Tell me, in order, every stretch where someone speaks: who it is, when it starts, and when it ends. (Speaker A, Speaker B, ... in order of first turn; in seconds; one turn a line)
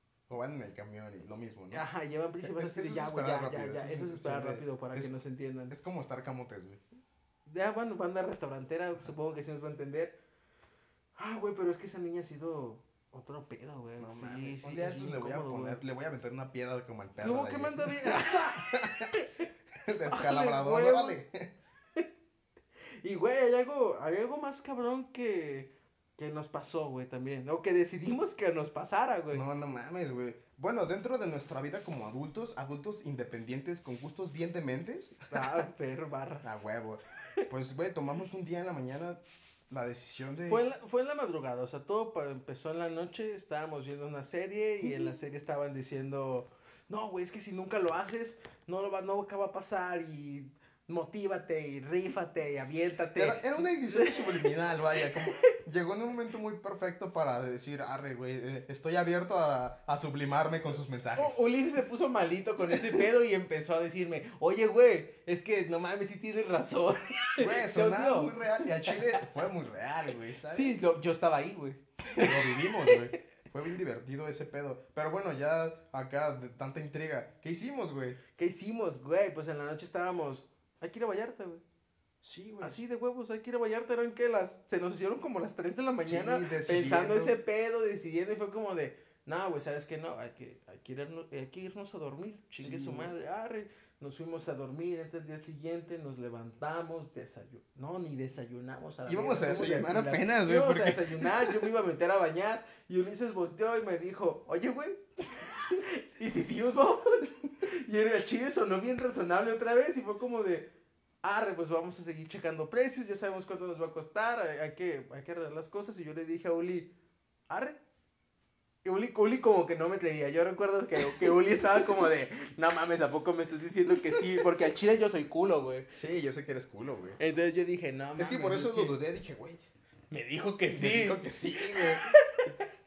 Speaker A: 0.3-1.8
Speaker B: 1.7-5.8
Speaker A: 2.4-5.1
Speaker A: 5.7-6.8
Speaker B: 7.5-10.2
Speaker B: 11.2-15.8
Speaker A: 14.0-19.1
Speaker B: 17.2-19.5
Speaker A: 19.9-21.5
Speaker B: 20.1-21.2
Speaker B: 23.0-29.4
Speaker A: 29.3-35.6
Speaker B: 35.3-36.6
Speaker A: 36.4-40.6
Speaker B: 40.5-55.5
Speaker A: 44.8-45.1
Speaker A: 53.1-61.4
Speaker B: 61.2-69.2
Speaker A: 67.4-70.8
Speaker B: 70.5-73.2
Speaker A: 72.2-78.2
Speaker B: 78.4-81.6
Speaker A: 82.2-82.8
Speaker B: 82.6-105.0
Speaker A: 86.1-87.4
Speaker A: 92.6-93.1
Speaker A: 99.1-101.7
Speaker B: 105.7-110.7
Speaker B: 111.2-116.9
Speaker B: 117.5-117.8
Speaker B: 118.8-125.9
Speaker A: 121.1-121.9
Speaker A: 125.9-127.2
Speaker B: 127.2-129.0
Speaker A: 128.2-129.6
Speaker B: 130.1-132.5
Speaker A: 130.7-132.1